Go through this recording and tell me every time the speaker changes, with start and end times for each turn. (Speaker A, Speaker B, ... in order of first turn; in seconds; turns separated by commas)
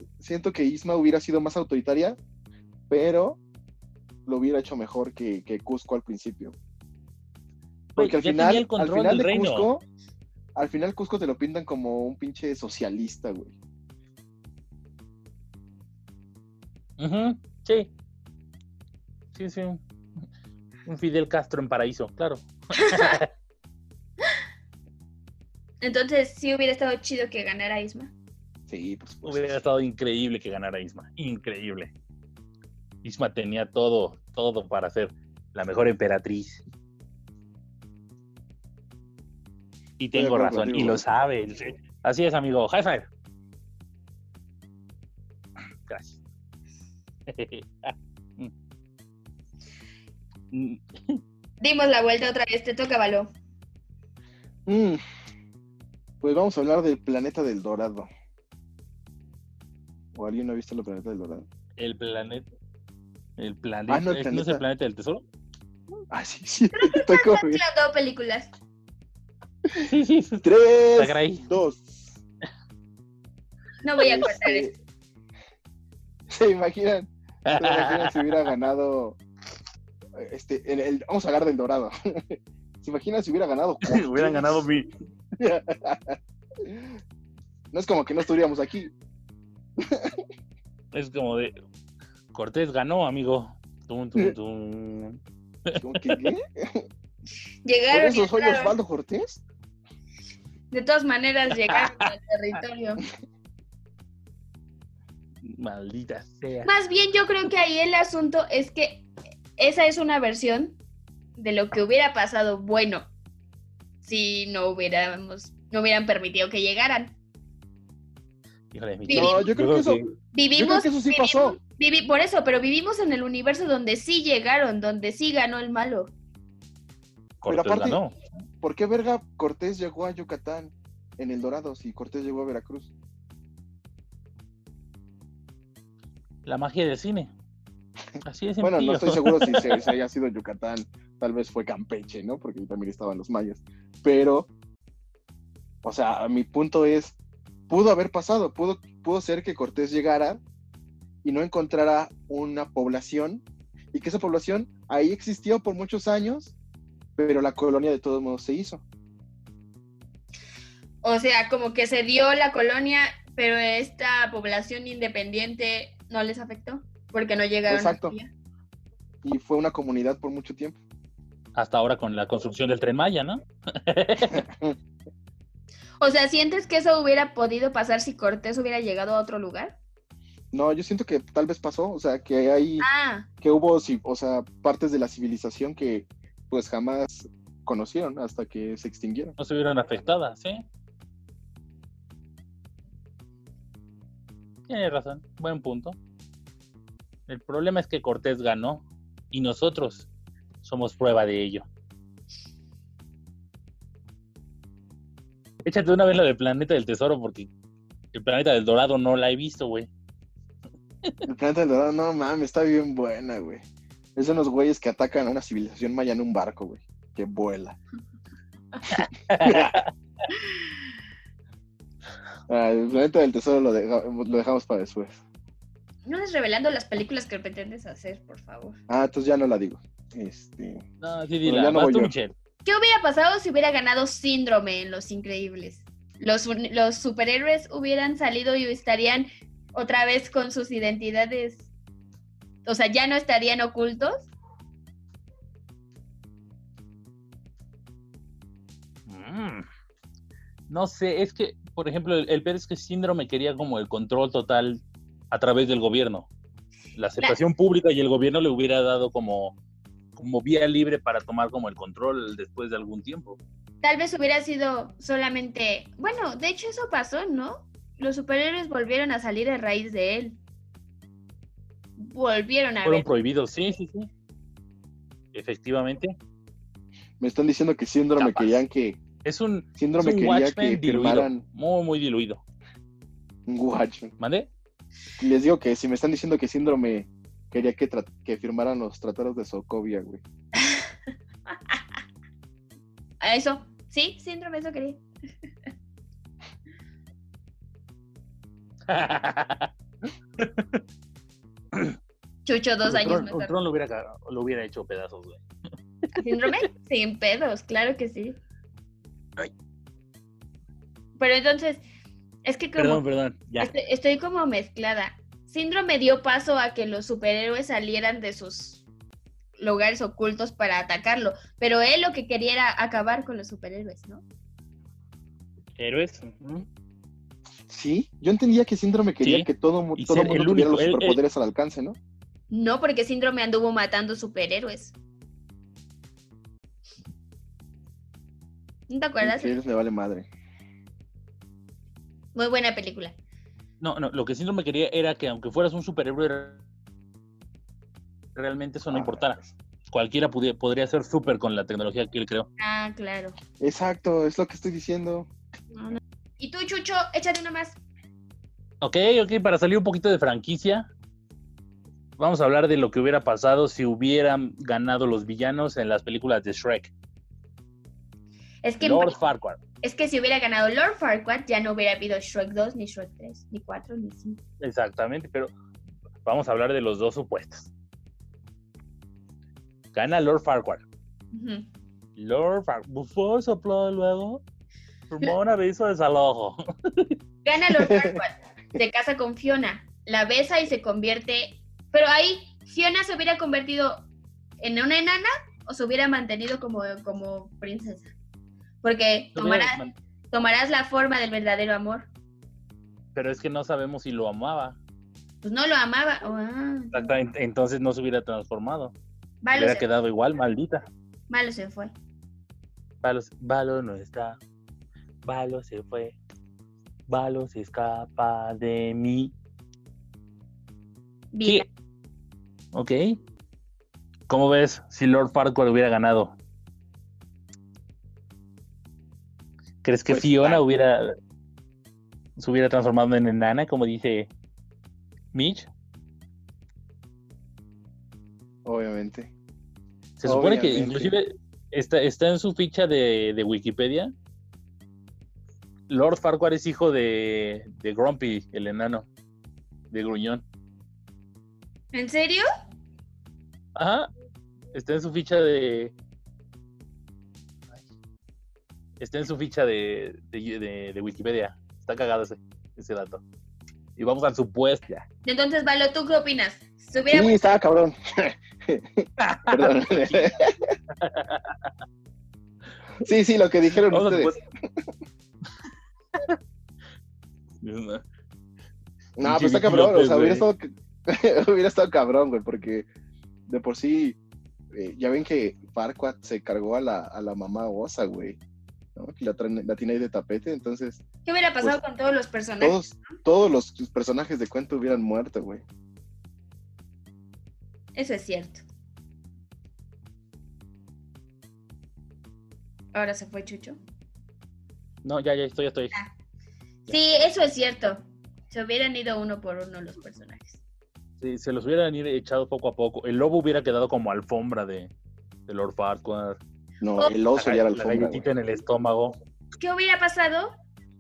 Speaker A: 0.2-2.2, Speaker A: 2.9-3.4, Speaker A: 4.2-6.5, Speaker B: 8.0-9.7, Speaker A: 8.0-9.8, Speaker A: 10.6-13.5, Speaker B: 17.0-17.9, Speaker B: 19.3-19.8, Speaker B: 20.9-23.3, Speaker C: 22.8-23.2, Speaker C: 25.8-28.1, Speaker A: 28.7-29.6, Speaker B: 29.2-31.9, Speaker B: 33.0-36.6, Speaker B: 40.0-43.1, Speaker A: 40.1-41.0, Speaker B: 45.9-46.2, Speaker B: 47.3-48.5, Speaker B: 50.5-51.2, Speaker C: 51.6-53.3, Speaker A: 54.7-55.0, Speaker A: 56.2-58.1, Speaker A: 60.1-61.5, Speaker B: 61.8-62.5, Speaker B: 63.4-65.2, Speaker A: 63.9-64.6, Speaker A: 66.1-67.6, Speaker C: 66.7-68.5, Speaker B: 69.8-70.4, Speaker A: 70.4-72.2, Speaker B: 71.0-71.5, Speaker C: 73.8-74.7, Speaker A: 74.0-74.8, Speaker A: 76.3-79.2, Speaker B: 77.5-78.5, Speaker A: 80.2-84.7, Speaker B: 83.8-84.9, Speaker A: 85.4-87.0, Speaker A: 87.7-88.9, Speaker A: 89.8-90.2, Speaker B: 90.9-91.5, Speaker B: 92.3-96.2, Speaker A: 95.8-96.8, Speaker C: 97.6-98.7, Speaker A: 97.9-99.4, Speaker C: 100.7-103.0, Speaker B: 101.7-102.0, Speaker B: 105.4-106.7, Speaker C: 106.6-110.8, Speaker C: 111.4-113.1, Speaker C: 114.0-117.2, Speaker B: 118.7-120.1, Speaker C: 119.1-119.4, Speaker A: 119.1-120.0, Speaker C: 120.3-126.1, Speaker A: 120.5-121.6, Speaker B: 127.4-128.1, Speaker A: 127.5-128.0, Speaker A: 128.6-132.9, Speaker B: 136.4-137.3, Speaker B: 138.2-139.8, Speaker A: 138.6-144.5, Speaker A: 145.8-147.2, Speaker A: 147.7-150.4, Speaker A: 151.2-156.5, Speaker A: 157.2-158.8, Speaker C: 161.0-168.3, Speaker A: 167.7-168.1, Speaker A: 169.2-170.8, Speaker B: 171.5-174.4, Speaker A: 174.3-174.8, Speaker C: 176.0-179.8, Speaker A: 180.5-182.9, Speaker C: 182.8-183.3, Speaker A: 183.4-189.3, Speaker B: 189.4-190.6, Speaker B: 194.7-196.0, Speaker B: 197.3-200.1, Speaker B: 200.6-201.7, Speaker B: 205.6-207.5, Speaker B: 208.1-209.9, Speaker A: 211.2-213.6, Speaker A: 214.2-217.8, Speaker B: 218.9-219.9, Speaker A: 219.4-219.8, Speaker A: 222.5-225.2, Speaker C: 226.1-228.8, Speaker A: 228.9-230.8, Speaker B: 231.0-232.3, Speaker A: 231.4-232.1, Speaker C: 232.6-241.7, Speaker C: 242.6-244.3, Speaker B: 249.1-249.6, Speaker B: 250.7-256.3, Speaker B: 256.9-259.6, Speaker B: 260.1-263.4, Speaker C: 263.8-270.4, Speaker C: 272.0-273.1, Speaker B: 272.9-274.1, Speaker B: 275.3-276.1, Speaker A: 277.2-279.0, Speaker B: 278.2-278.6, Speaker B: 279.2-282.4, Speaker A: 279.8-281.4, Speaker A: 283.5-284.1, Speaker B: 284.2-284.5, Speaker A: 285.2-290.2, Speaker C: 293.2-295.0, Speaker B: 298.9-299.7, Speaker B: 300.4-300.8, Speaker C: 302.4-303.5, Speaker B: 302.8-305.4, Speaker C: 306.1-308.4, Speaker C: 311.2-311.8, Speaker C: 312.4-313.0, Speaker B: 312.8-313.7, Speaker C: 313.6-318.8, Speaker C: 319.6-324.2, Speaker B: 325.8-326.6, Speaker A: 327.7-332.0, Speaker B: 329.2-331.2, Speaker C: 332.5-334.9, Speaker C: 338.9-339.6, Speaker A: 339.2-340.3, Speaker C: 342.4-343.1, Speaker B: 343.8-346.6, Speaker B: 348.4-349.4, Speaker A: 348.9-349.5, Speaker B: 349.9-352.5, Speaker C: 352.6-353.4, Speaker A: 353.6-355.3, Speaker C: 355.7-357.8, Speaker B: 358.8-360.9, Speaker B: 362.2-366.9, Speaker C: 368.6-369.2, Speaker B: 368.8-369.6, Speaker C: 369.8-374.4, Speaker B: 374.6-375.5, Speaker B: 376.2-377.7, Speaker B: 379.9-380.8, Speaker C: 381.3-381.6, Speaker B: 382.2-384.4, Speaker B: 385.1-387.1, Speaker C: 387.4-394.1, Speaker A: 387.8-388.2, Speaker C: 394.6-398.1, Speaker C: 398.8-402.1, Speaker B: 399.4-399.9, Speaker B: 403.1-404.8, Speaker C: 405.4-407.1, Speaker B: 406.9-408.9, Speaker C: 409.4-409.9, Speaker B: 409.5-410.9, Speaker C: 411.3-411.9, Speaker B: 413.0-414.4, Speaker B: 415.2-416.1, Speaker B: 417.1-419.3, Speaker C: 421.3-421.6, Speaker B: 422.7-423.2, Speaker B: 424.3-426.4, Speaker B: 429.8-431.1, Speaker A: 430.1-430.6, Speaker B: 432.4-434.3, Speaker B: 435.3-435.7, Speaker A: 438.6-439.3, Speaker B: 440.2-444.1, Speaker A: 440.2-441.1, Speaker B: 445.9-449.1, Speaker B: 449.9-450.4, Speaker C: 451.9-452.4, Speaker B: 453.7-454.1, Speaker B: 454.7-455.9, Speaker B: 459.0-463.2, Speaker B: 464.0-465.0, Speaker C: 465.2-467.3, Speaker A: 467.1-470.7, Speaker B: 469.2-470.3, Speaker B: 471.0-471.7, Speaker A: 473.0-474.4, Speaker B: 473.9-474.4, Speaker B: 477.6-478.0, Speaker A: 479.2-482.9, Speaker B: 479.2-480.4, Speaker A: 483.5-484.2, Speaker A: 484.7-488.4, Speaker A: 488.9-491.0, Speaker C: 491.2-492.8, Speaker A: 492.6-495.6, Speaker C: 497.9-498.6, Speaker C: 502.9-503.8, Speaker B: 505.0-505.9, Speaker C: 506.9-510.6, Speaker B: 511.2-514.9, Speaker B: 515.5-516.4, Speaker A: 516.8-518.3, Speaker B: 517.3-519.1, Speaker C: 519.6-520.5